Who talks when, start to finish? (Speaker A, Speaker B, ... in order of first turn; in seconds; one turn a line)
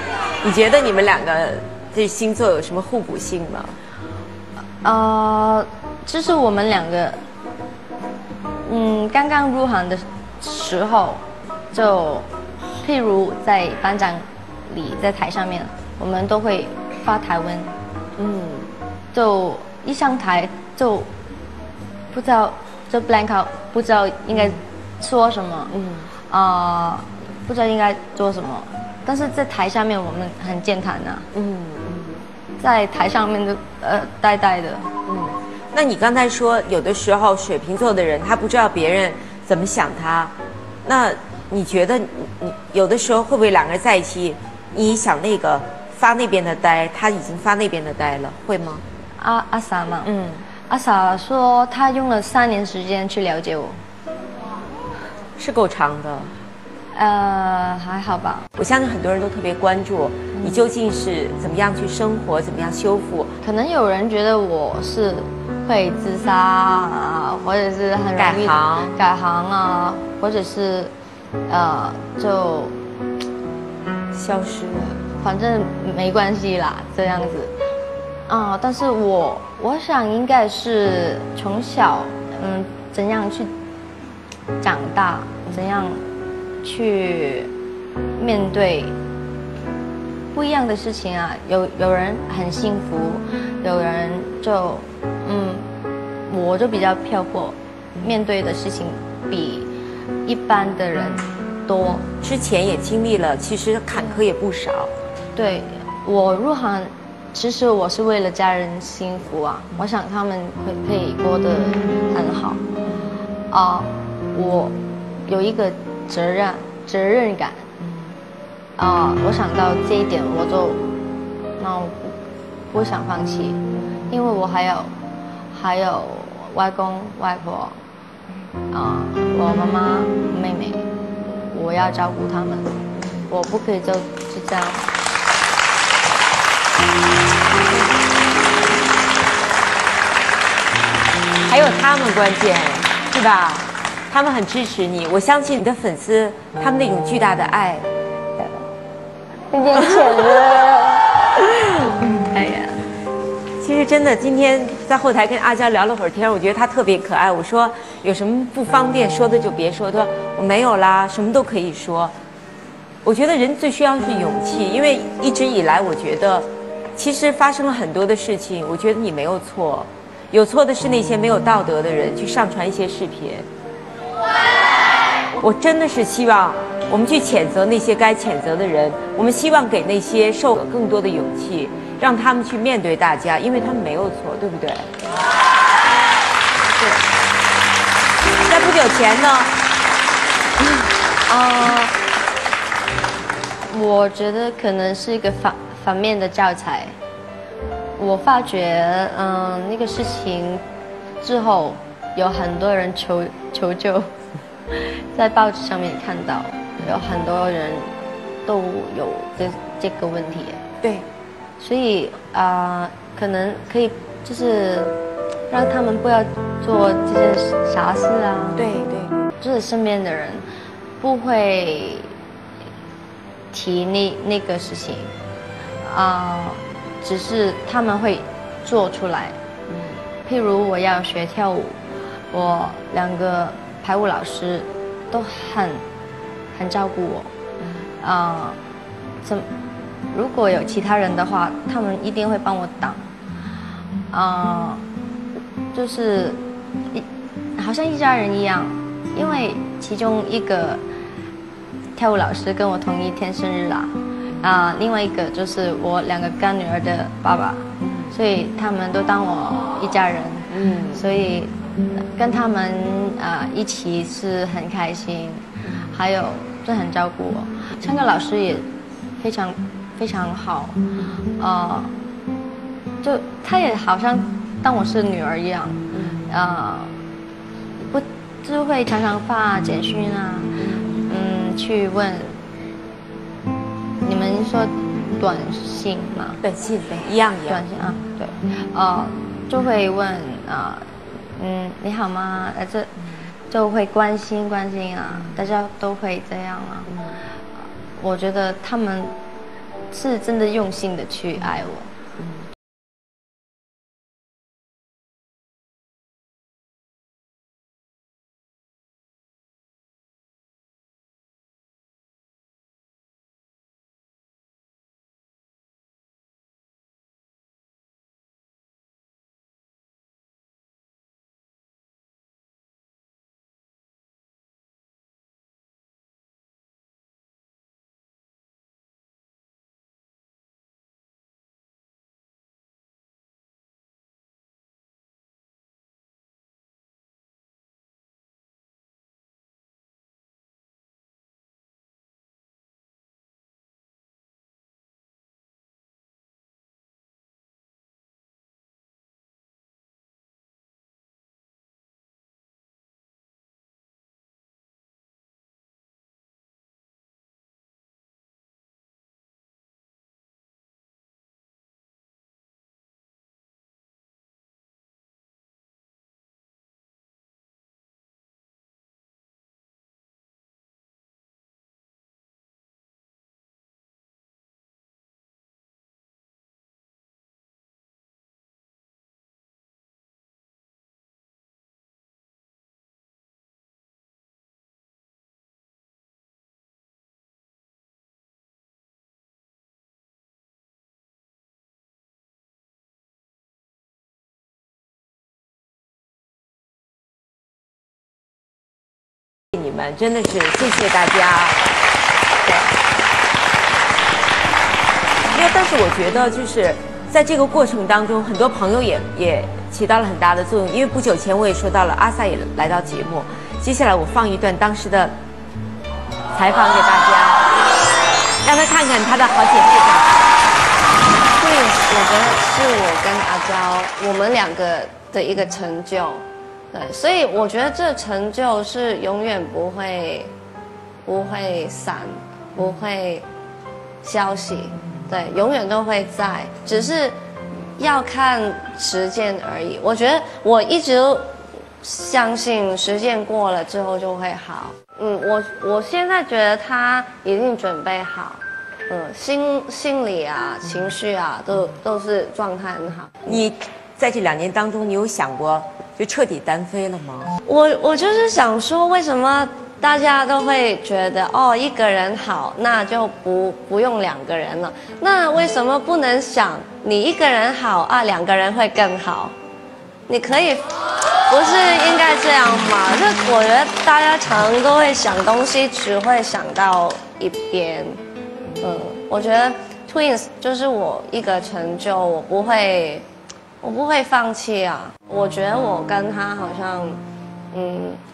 Speaker A: 0.4-3.8
Speaker B: 4.8-7.2
Speaker B: 8.6-17.7
Speaker A: 18.2-18.7
Speaker B: 19.1-21.1
Speaker B: 22.1-25.7
Speaker A: 24.3-24.6
Speaker A: 25.7-26.1
Speaker B: 26.3-31.3
Speaker A: 31.3-32.2
Speaker B: 32.6-34.9
Speaker A: 35.1-40.3
Speaker A: 40.8-48.8
Speaker B: 49.2-53.8
Speaker A: 50.0-50.4
Speaker A: 55.4-56.3
Speaker B: 56.9-58.5
Speaker A: 58.6-63.3
Speaker B: 60.3-60.6
Speaker B: 63.4-70.9
Speaker A: 68.2-69.0
Speaker B: 71.5-72.7
Speaker A: 74.1-75.0
Speaker B: 75.2-77.5
Speaker B: 78.3-83.5
Speaker B: 84.6-86.1
Speaker B: 86.6-87.5
Speaker B: 88.2-88.9
Speaker B: 90.3-95.7
Speaker B: 96.3-99.7
Speaker B: 100.2-102.0
Speaker A: 102.2-104.9
Speaker B: 105.3-112.6
Speaker A: 112.8-113.1
Speaker B: 113.5-117.7
Speaker A: 117.8-118.1
Speaker B: 118.8-120.8
Speaker B: 121.6-122.2
Speaker B: 122.7-124.9
Speaker A: 123.8-124.1
Speaker B: 125.5-127.8
Speaker B: 128.7-132.7
Speaker A: 132.9-133.3
Speaker B: 133.3-134.9
Speaker A: 141.4-147.9
Speaker B: 148.4-148.6
Speaker B: 149.5-151.0
Speaker A: 149.8-150.6
Speaker B: 151.8-152.8
Speaker A: 153.6-162.1
Speaker A: 163.0-173.5
Speaker A: 175.4-184.9
Speaker A: 188.4-189.5
Speaker B: 191.3-191.9
Speaker B: 193.7-196.9
Speaker B: 198.0-200.6
Speaker B: 201.2-204.1
Speaker B: 204.7-207.9
Speaker B: 208.4-210.6
Speaker B: 211.6-214.9
Speaker B: 215.5-218.7
Speaker A: 218.6-219.2
Speaker B: 219.4-220.4
Speaker B: 221.0-222.1
Speaker B: 223.5-225.1
Speaker B: 225.8-229.3
Speaker A: 229.7-230.0
Speaker B: 230.2-231.8
Speaker B: 232.3-235.8
Speaker B: 236.5-237.3
Speaker B: 238.0-238.6
Speaker B: 239.2-239.5
Speaker B: 240.1-243.1
Speaker B: 244.1-244.8
Speaker B: 245.7-247.0
Speaker B: 247.6-250.8
Speaker B: 251.9-268.6
Speaker A: 257.8-258.1
Speaker A: 260.5-261.0
Speaker A: 265.6-265.9
Speaker B: 269.2-270.8
Speaker B: 271.4-271.9
Speaker B: 273.0-276.9
Speaker A: 275.9-276.3
Speaker B: 277.8-280.5
Speaker A: 280.6-281.1
Speaker B: 281.1-282.4
Speaker B: 284.0-286.4
Speaker A: 286.4-287.6
Speaker B: 287.5-292.9
Speaker B: 293.5-296.9
Speaker A: 296.9-297.2
Speaker B: 298.0-299.1
Speaker B: 299.9-301.9
Speaker A: 399.5-401.6
Speaker A: 405.3-415.1
Speaker A: 416.3-417.4
Speaker A: 418.4-420.1
Speaker C: 421.3-430.3
Speaker C: 431.0-433.3
Speaker C: 434.0-437.2
Speaker C: 437.8-453.4
Speaker A: 453.2-457.3
Speaker C: 457.4-469.3
Speaker C: 470.1-470.7
Speaker C: 471.3-478.0
Speaker C: 478.6-483.1
Speaker C: 483.6-487.0
Speaker C: 487.5-488.0